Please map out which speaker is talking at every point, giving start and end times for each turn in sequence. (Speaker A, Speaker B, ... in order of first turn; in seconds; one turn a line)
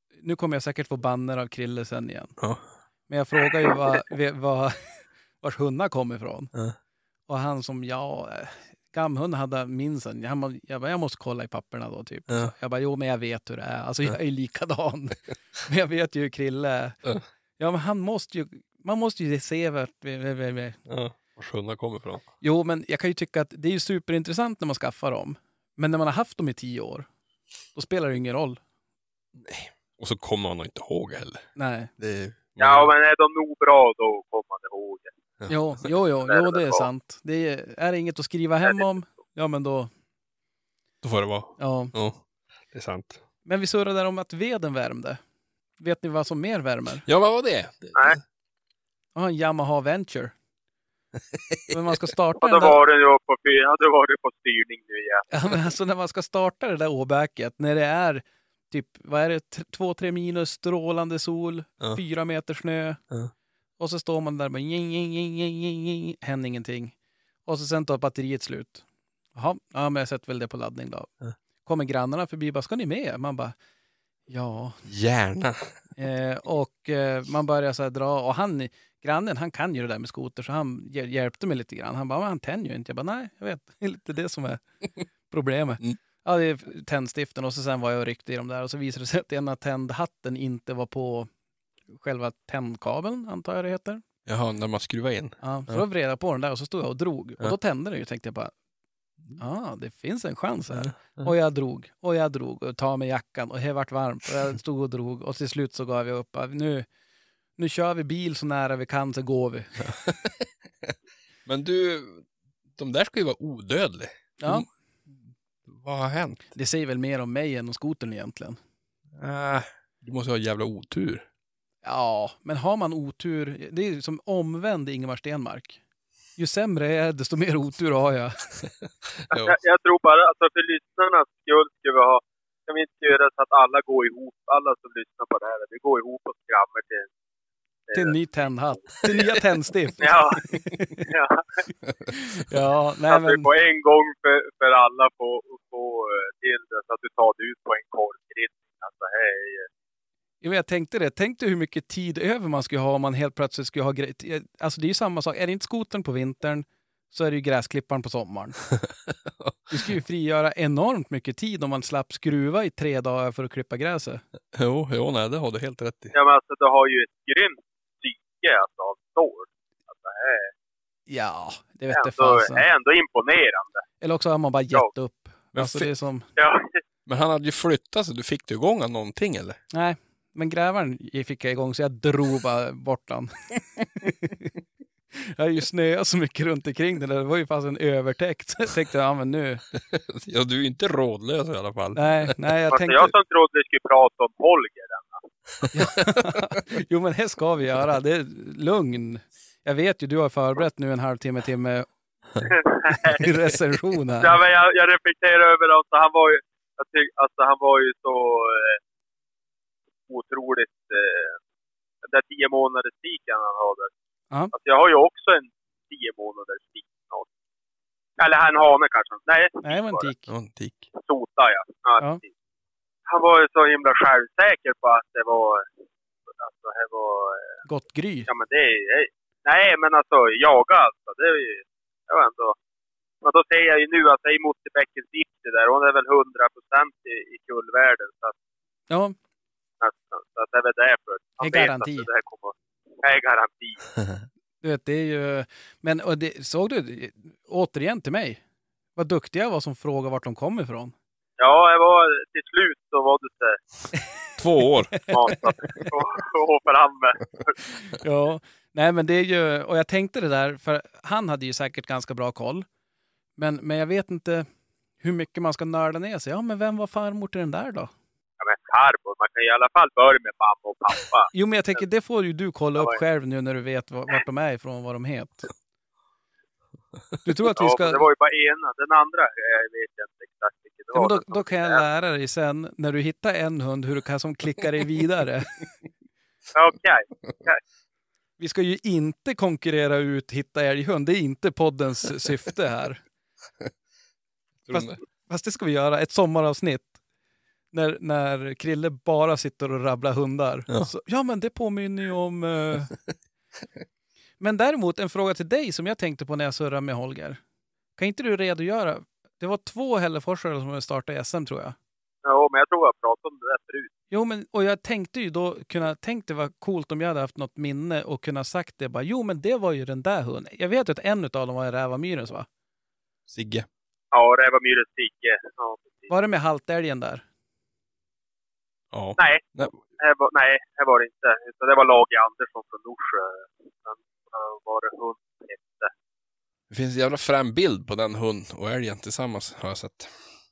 Speaker A: 0.2-2.4
Speaker B: 2.4-2.6
Speaker A: 3.1-6.5
Speaker A: 7.3-17.0
Speaker A: 17.6-20.8
Speaker B: 20.9-22.2
Speaker A: 22.4-27.1
Speaker A: 27.7-28.6
Speaker B: 29.3-32.9
Speaker A: 31.6-31.9
Speaker C: 32.6-35.1
Speaker A: 35.5-39.9
Speaker C: 36.3-36.9
Speaker B: 41.0-43.2
Speaker A: 41.6-41.9
Speaker A: 43.4-45.2
Speaker A: 45.8-47.0
Speaker B: 47.0-48.2
Speaker A: 49.1-50.3
Speaker A: 51.7-52.8
Speaker C: 52.4-55.3
Speaker A: 55.3-63.0
Speaker A: 63.8-66.9
Speaker A: 67.5-68.8
Speaker A: 69.3-71.1
Speaker A: 71.6-73.5
Speaker A: 74.3-74.8
Speaker B: 74.8-75.8
Speaker A: 76.0-84.6
Speaker A: 85.3-91.3
Speaker A: 91.9-94.0
Speaker B: 94.2-95.8
Speaker A: 95.4-98.5
Speaker A: 99.4-106.9
Speaker B: 100.8-101.3
Speaker A: 107.6-109.9
Speaker B: 109.8-110.4
Speaker B: 111.4-114.7
Speaker A: 114.4-114.7
Speaker B: 115.6-116.5
Speaker A: 116.5-118.6
Speaker B: 119.1-121.2
Speaker A: 121.8-125.8
Speaker A: 126.3-128.5
Speaker B: 129.3-129.6
Speaker C: 129.3-137.1
Speaker C: 137.9-138.2
Speaker A: 137.9-141.0
Speaker C: 140.0-140.4
Speaker C: 141.0-141.7
Speaker A: 142.3-143.5
Speaker C: 143.1-149.7
Speaker A: 150.4-158.7
Speaker A: 159.7-164.2
Speaker B: 164.5-166.2
Speaker C: 166.1-170.5
Speaker A: 171.1-172.6
Speaker C: 171.9-173.8
Speaker A: 174.0-176.3
Speaker B: 175.5-175.9
Speaker C: 176.3-176.8
Speaker B: 177.1-179.6
Speaker A: 179.7-184.5
Speaker A: 185.2-189.6
Speaker B: 189.8-192.5
Speaker A: 191.9-193.1
Speaker C: 192.7-195.2
Speaker A: 195.7-201.9
Speaker C: 202.5-203.2
Speaker A: 203.1-204.4
Speaker C: 204.2-208.8
Speaker C: 210.1-211.4
Speaker C: 212.0-213.9
Speaker C: 214.5-217.2
Speaker C: 218.2-220.1
Speaker A: 219.6-220.3
Speaker B: 220.3-220.9
Speaker C: 220.9-222.3
Speaker C: 223.1-225.7
Speaker C: 226.4-227.6
Speaker A: 227.7-228.3
Speaker C: 228.3-232.6
Speaker C: 233.2-238.3
Speaker A: 238.9-239.1
Speaker C: 239.8-243.9
Speaker A: 241.4-242.1
Speaker A: 244.6-248.4
Speaker A: 248.9-250.9
Speaker C: 251.4-253.6
Speaker B: 254.4-255.7
Speaker C: 255.1-257.6
Speaker A: 258.0-262.7
Speaker A: 263.4-264.5
Speaker A: 265.0-267.9
Speaker C: 268.4-271.8
Speaker A: 271.3-275.5
Speaker A: 277.2-278.0
Speaker C: 277.5-281.8
Speaker A: 280.9-285.6
Speaker C: 286.5-287.6
Speaker A: 288.4-293.0
Speaker B: 294.6-295.0
Speaker A: 294.7-296.9
Speaker A: 297.7-303.0
Speaker A: 304.4-307.4
Speaker A: 308.0-311.8
Speaker C: 312.2-313.9
Speaker A: 314.1-322.5
Speaker B: 323.3-323.7
Speaker C: 324.1-326.1
Speaker A: 326.1-327.2
Speaker B: 328.9-329.8
Speaker C: 329.2-335.9
Speaker B: 336.7-340.2